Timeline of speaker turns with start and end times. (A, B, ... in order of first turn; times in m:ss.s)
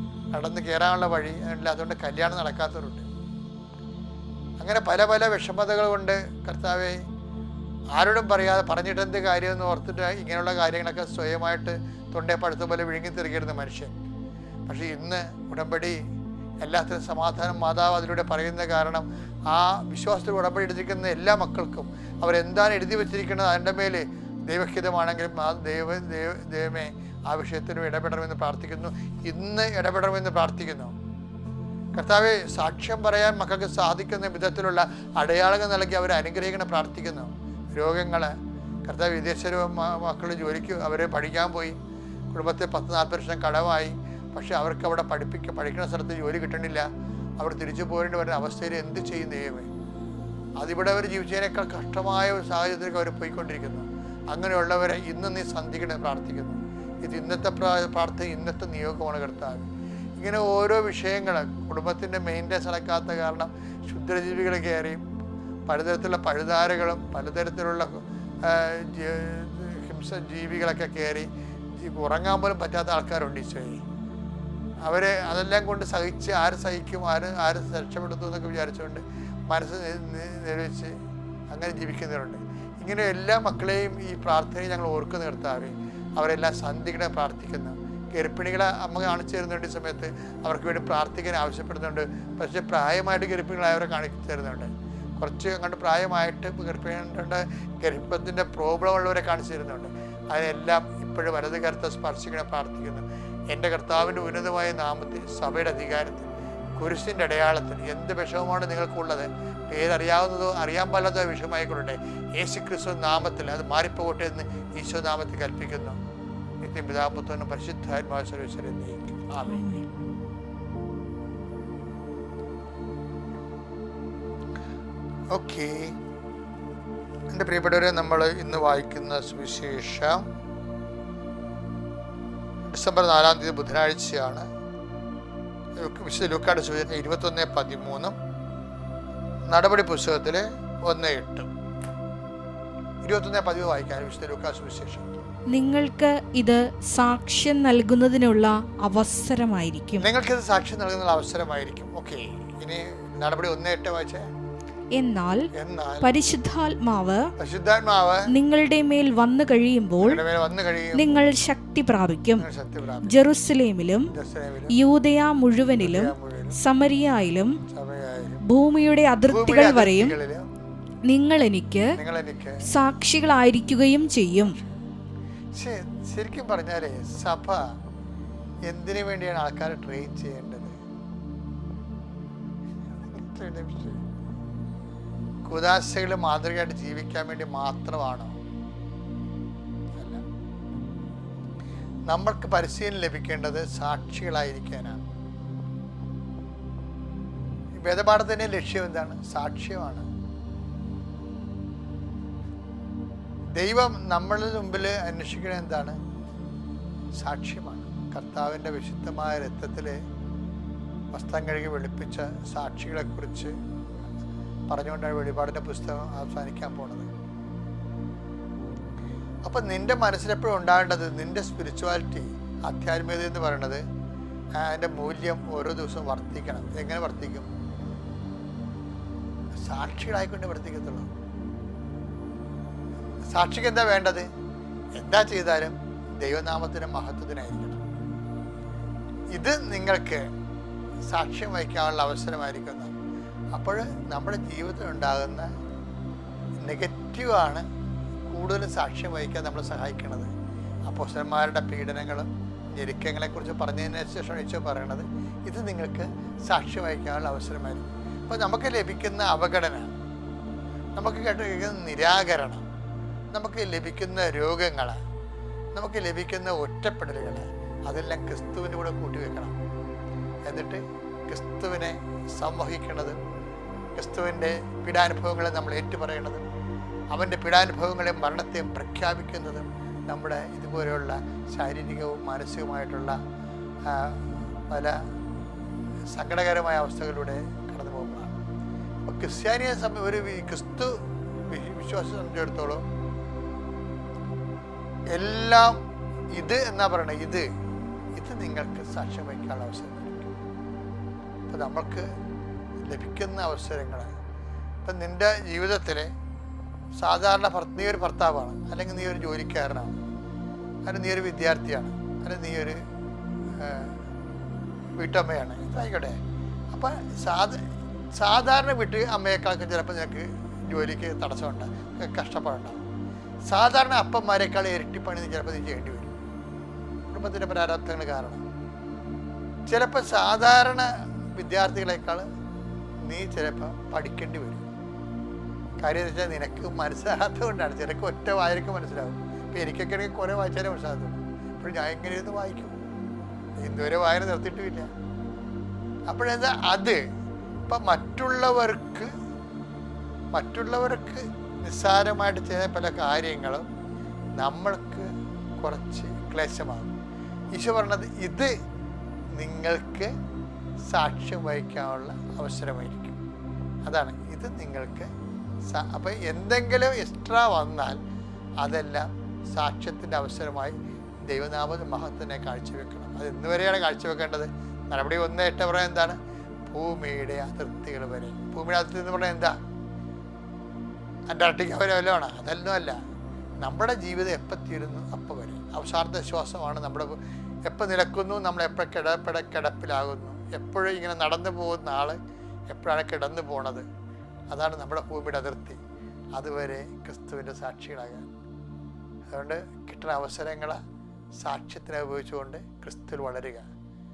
0:00.3-0:03.1 A
0:04.6-0:07.0 A
0:07.9-0:13.9 A
0:14.7-0:16.0 A
0:16.6-0:30.9 A
0:31.9-0:38.3 A
0:38.9-0:41.8 A
0:42.3-0:46.9 A
0:47.4-0:49.7 A
0:50.6-0:59.7 A
1:00.2-1:05.0 A
1:05.7-1:11.3 A
1:11.8-1:13.8 A
1:14.9-1:20.9 A
1:21.5-1:56.0 A
1:56.6-1:59.7 A
1:59.4-1:59.9 B
2:05.3-2:05.9 A
2:07.3-2:10.2 A
2:12.7-2:14.5 A
2:15.8-2:18.2 A
2:19.5-2:21.5 A
2:23.0-2:25.1 A
2:25.5-2:30.0 B
2:30.0-2:34.3 A
2:34.9-2:35.5 B
2:35.5-2:36.1 A
2:36.0-2:37.3 B
2:37.4-2:38.3 A
2:38.3-2:40.2 B
2:40.0-2:41.2 A
2:40.9-2:42.4 B
2:42.4-2:43.2 A
2:43.0-2:44.1 B
2:44.1-2:44.7 A
2:44.7-2:47.6 B
2:45.8-2:46.6 A
2:47.7-2:48.4 A
2:48.4-2:50.2 B
2:49.3-2:50.4 A
2:51.1-2:51.9 B
2:52.0-2:52.6 A
2:52.7-2:54.6 B
2:54.4-2:54.8 A
2:55.6-2:57.6 A
2:58.7-3:00.8 A
3:02.9-3:04.0 A
3:05.5-3:08.4 A
3:09.9-3:10.2 A
3:12.1-3:15.0 A
3:17.8-3:20.1 A
3:23.6-3:26.0 A
3:27.2-3:30.0 A
3:31.1-3:33.5 A
3:34.7-3:37.1 A
3:39.4-3:43.8 A
3:44.6-3:47.5 A
3:49.7-3:51.1 A
3:53.3-3:54.3 A
3:55.0-3:57.8 A
3:59.3-4:00.2 A
4:01.1-4:02.9 A
4:03.6-4:05.5 A
4:06.6-4:07.6 A
4:08.3-4:10.3 A
4:10.9-4:19.9 A
4:21.0-4:22.6 A
4:23.3-4:25.0 A
4:25.7-4:29.6 A
4:30.4-4:33.2 A
4:34.0-4:36.4 A
4:37.1-4:43.2 A
4:43.9-4:45.0 A
4:46.1-4:48.3 A
4:49.0-4:50.9 A
4:51.5-4:52.8 A
4:55.2-4:55.8 A
4:56.4-4:57.5 A
4:58.2-5:00.3 A
5:01.5-5:02.1 A
5:02.8-5:04.1 A
5:04.8-5:06.1 A
5:07.0-5:10.0 A
5:10.8-5:12.8 A
5:13.6-5:13.9 A
5:15.0-5:16.2 A
5:16.7-5:17.6 A
5:18.2-5:22.8 A
5:23.5-5:26.1 A
5:27.1-5:28.4 A
5:29.7-5:32.2 A
5:33.0-5:34.7 A
5:35.8-5:42.8 A
5:43.6-5:44.9 A
5:46.1-5:47.0 A
5:47.7-5:49.1 A
5:50.3-5:53.7 A
5:54.4-5:55.1 A
5:55.6-5:56.9 A
5:57.6-5:58.5 A
5:59.4-6:00.1 A
6:00.9-6:03.2 A
6:03.8-6:05.1 A
6:05.7-6:08.0 A
6:08.6-6:10.8 A
6:11.3-6:19.6 A
6:21.3-6:23.0 A
6:23.6-6:32.2 A
6:32.7-6:33.9 A
6:34.5-6:35.8 A
6:36.4-6:38.2 A
6:39.3-6:40.8 A
6:41.4-6:43.7 A